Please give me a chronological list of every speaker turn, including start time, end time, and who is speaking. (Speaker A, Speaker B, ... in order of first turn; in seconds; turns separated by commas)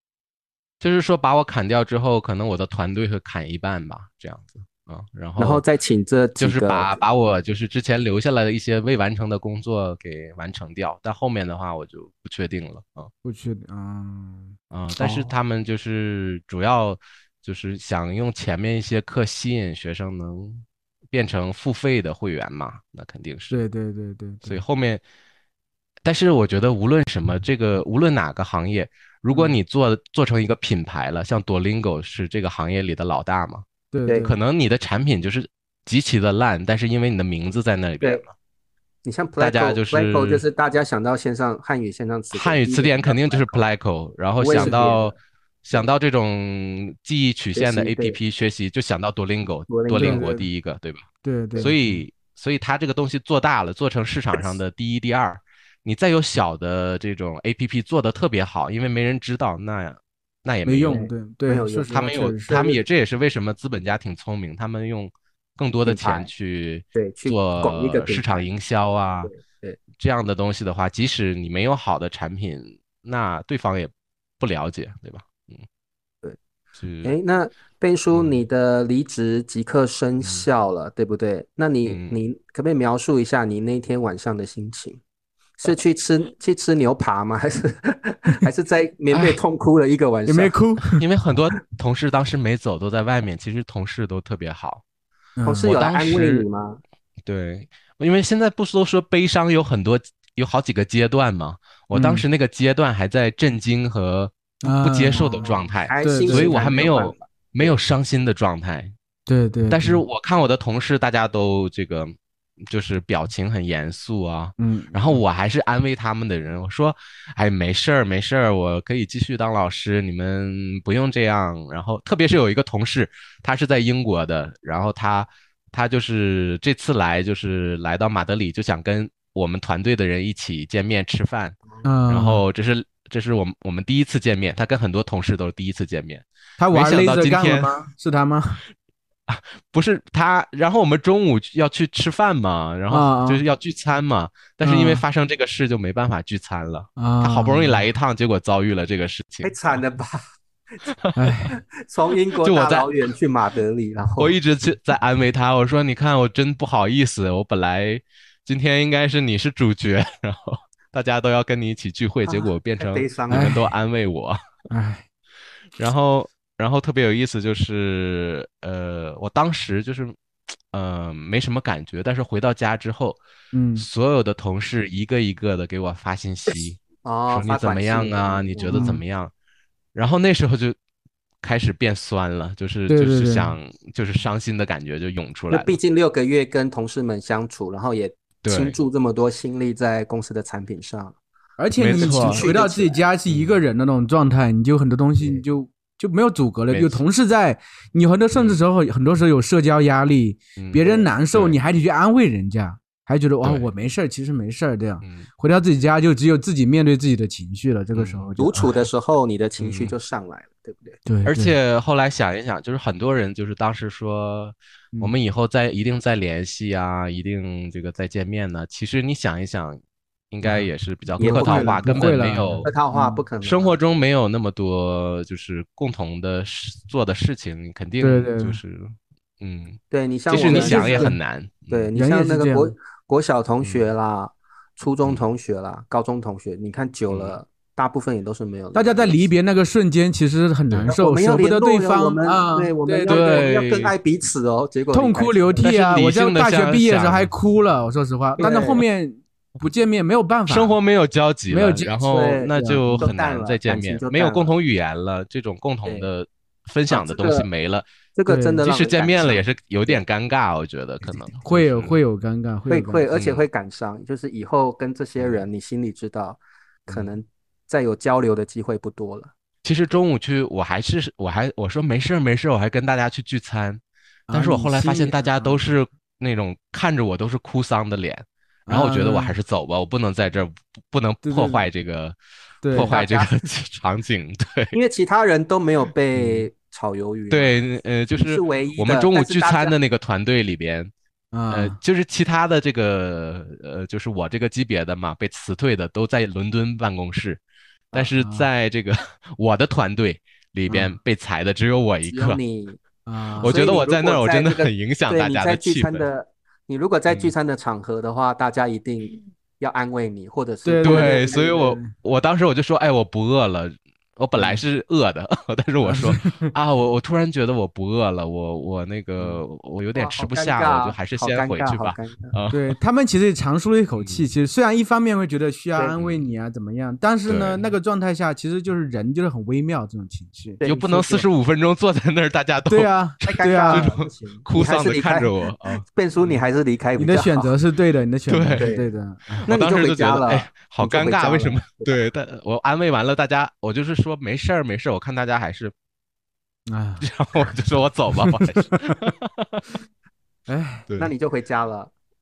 Speaker A: 0.8-5.6, Speaker B: 5.4-7.0, Speaker A: 6.4-13.1, Speaker C: 13.2-14.6, Speaker A: 14.7-23.6, Speaker B: 15.0-15.3, Speaker C: 23.5-24.6, Speaker A: 24.4-25.0, Speaker A: 26.0-33.7, Speaker C: 33.9-34.4, Speaker A: 34.2-38.3, Speaker B: 39.0-43.7, Speaker A: 39.4-40.4, Speaker A: 42.3-51.1, Speaker B: 44.4-45.1, Speaker C: 44.6-44.8, Speaker B: 47.5-48.2, Speaker B: 49.7-50.3, Speaker C: 50.0-50.5, Speaker C: 51.2-52.0, Speaker A: 51.6-61.0, Speaker C: 60.7-62.7, Speaker B: 60.9-62.7, Speaker A: 61.9-69.3, Speaker B: 65.8-66.3, Speaker B: 66.9-68.5, Speaker B: 69.2-69.8, Speaker A: 70.0-75.7, Speaker A: 76.8-77.1, Speaker B: 77.0-85.0, Speaker A: 78.1-78.4, Speaker A: 81.8-82.2, Speaker B: 85.6-90.5, Speaker C: 90.3-91.0, Speaker A: 91.0-94.8, Speaker C: 95.4-95.7, Speaker B: 95.4-96.8, Speaker A: 95.6-96.5, Speaker A: 97.2-108.9, Speaker C: 101.9-102.3, Speaker C: 104.6-105.5, Speaker B: 105.2-107.7, Speaker C: 106.0-106.6, Speaker C: 109.3-110.0, Speaker A: 109.7-112.2, Speaker A: 112.7-131.6, Speaker C: 114.6-115.2, Speaker C: 131.8-132.4, Speaker A: 132.1-137.7, Speaker C: 136.6-138.6, Speaker A: 139.3-149.6, Speaker C: 142.9-143.4, Speaker C: 144.6-145.0, Speaker C: 147.0-147.9, Speaker B: 149.4-150.2, Speaker A: 150.8-151.4, Speaker C: 151.2-151.6, Speaker B: 151.8-154.4, Speaker A: 152.4-152.9, Speaker A: 154.2-164.4, Speaker B: 162.8-163.5, Speaker C: 163.3-163.7, Speaker C: 164.7-165.1, Speaker A: 165.8-170.2, Speaker A: 170.7-173.2, Speaker C: 173.5-173.9, Speaker A: 173.8-179.3, Speaker B: 177.0-178.9, Speaker C: 178.7-179.0, Speaker A: 179.9-180.8, Speaker A: 181.4-185.8, Speaker C: 182.9-183.6, Speaker B: 185.5-191.2, Speaker A: 188.4-188.8, Speaker C: 191.6-208.9, Speaker A: 191.8-192.5, Speaker B: 191.9-193.0, Speaker A: 193.3-193.6, Speaker A: 196.7-197.0, Speaker A: 198.3-198.6, Speaker A: 200.6-201.6, Speaker B: 200.8-201.1, Speaker A: 203.4-203.7, Speaker A: 207.9-208.3, Speaker B: 208.4-211.0, Speaker A: 209.6-209.9, Speaker C: 211.1-211.6, Speaker A: 211.3-219.8, Speaker A: 220.3-222.7, Speaker C: 220.4-223.2, Speaker B: 221.2-223.8, Speaker A: 223.4-231.9, Speaker C: 228.0-228.6, Speaker B: 229.9-231.2, Speaker C: 230.3-231.2, Speaker B: 231.7-239.3, Speaker C: 231.9-232.7, Speaker A: 233.6-233.9, Speaker A: 237.1-237.4, Speaker C: 238.7-243.4, Speaker A: 240.7-241.0, Speaker B: 240.9-245.7, Speaker A: 243.1-243.9, Speaker C: 244.9-250.8, Speaker A: 245.6-247.3, Speaker B: 248.4-248.8, Speaker A: 250.5-257.9, Speaker C: 251.5-253.1, Speaker B: 252.0-254.5, Speaker B: 256.9-257.5, Speaker B: 258.1-260.0, Speaker C: 258.3-258.6, Speaker A: 258.6-262.0, Speaker B: 261.1-261.3, Speaker C: 261.4-263.1, Speaker B: 262.7-269.3, Speaker A: 263.1-263.4, Speaker A: 265.2-265.4, Speaker A: 269.6-273.8, Speaker C: 274.3-275.6, Speaker A: 274.3-282.2, Speaker C: 278.7-279.3, Speaker C: 281.2-281.6, Speaker C: 282.6-282.9, Speaker A: 282.7-284.8, Speaker B: 282.8-283.4, Speaker B: 284.7-287.6, Speaker C: 286.1-286.5, Speaker A: 287.3-290.9, Speaker B: 288.1-289.8, Speaker C: 291.3-291.8, Speaker A: 291.5-302.4, Speaker C: 298.2-298.5, Speaker C: 300.7-301.0, Speaker B: 302.1-302.8, Speaker C: 303.1-303.8, Speaker B: 303.4-311.6, Speaker A: 303.4-306.1, Speaker C: 310.6-311.9, Speaker A: 310.8-322.7, Speaker C: 315.8-316.5, Speaker C: 319.2-319.4, Speaker B: 319.9-322.3, Speaker C: 322.5-330.6, Speaker A: 323.9-324.3, Speaker A: 326.0-326.3, Speaker A: 327.3-327.7, Speaker B: 330.6-331.3, Speaker A: 330.6-336.4, Speaker C: 332.7-333.9, Speaker B: 333.2-337.5, Speaker C: 337.0-339.5, Speaker A: 338.3-338.7, Speaker B: 338.6-338.9, Speaker A: 339.4-345.7, Speaker B: 339.5-342.0, Speaker C: 346.7-347.1, Speaker A: 347.0-349.7, Speaker C: 348.1-348.8, Speaker C: 350.5-350.9, Speaker A: 350.9-351.1, Speaker B: 351.0-351.9